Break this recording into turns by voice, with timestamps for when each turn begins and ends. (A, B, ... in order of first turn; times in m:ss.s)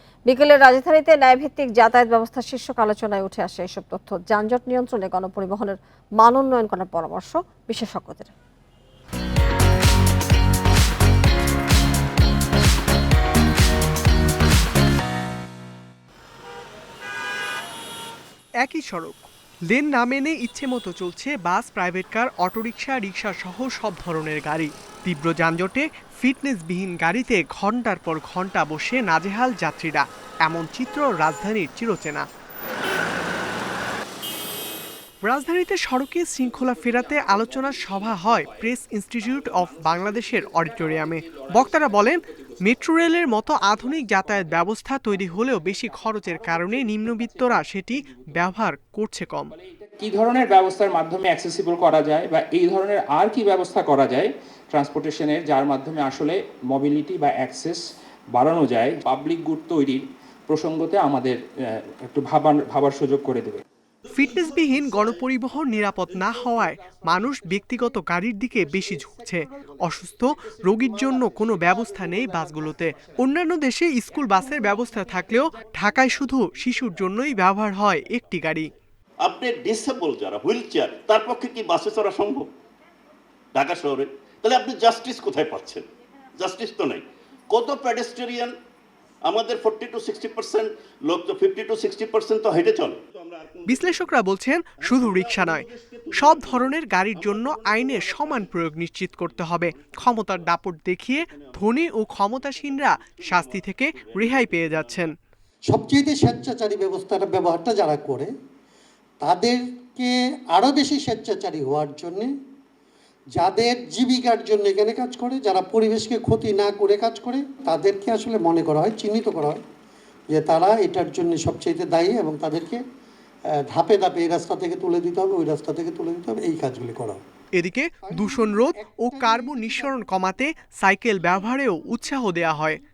0:00.3-0:08.3 A
0:18.6-0:32.3 B
0:35.2-0:49.5 B
0:36.6-0:42.1 C
0:43.7-0:44.5 C
0:45.1-0:48.4 C
0:49.6-0:57.8 C
0:58.4-1:01.4 C
1:02.0-1:03.6 C
1:04.1-1:18.7 B
1:04.2-1:05.4 D
1:06.0-1:07.6 D
1:08.7-1:09.2 D
1:10.7-1:13.2 D
1:19.2-1:22.5 D
1:23.5-1:25.8 D
1:26.4-1:28.5 D
1:29.2-1:34.0 D
1:33.7-1:45.1 B
1:34.8-1:40.6 D
1:41.2-1:41.7 D
1:42.3-1:45.0 D
1:45.7-1:48.3 E
1:49.2-1:52.3 E
1:53.4-1:59.6 E
2:00.3-2:02.8 E
2:03.7-2:07.2 E
2:07.6-2:12.8 B
2:08.1-2:10.1 E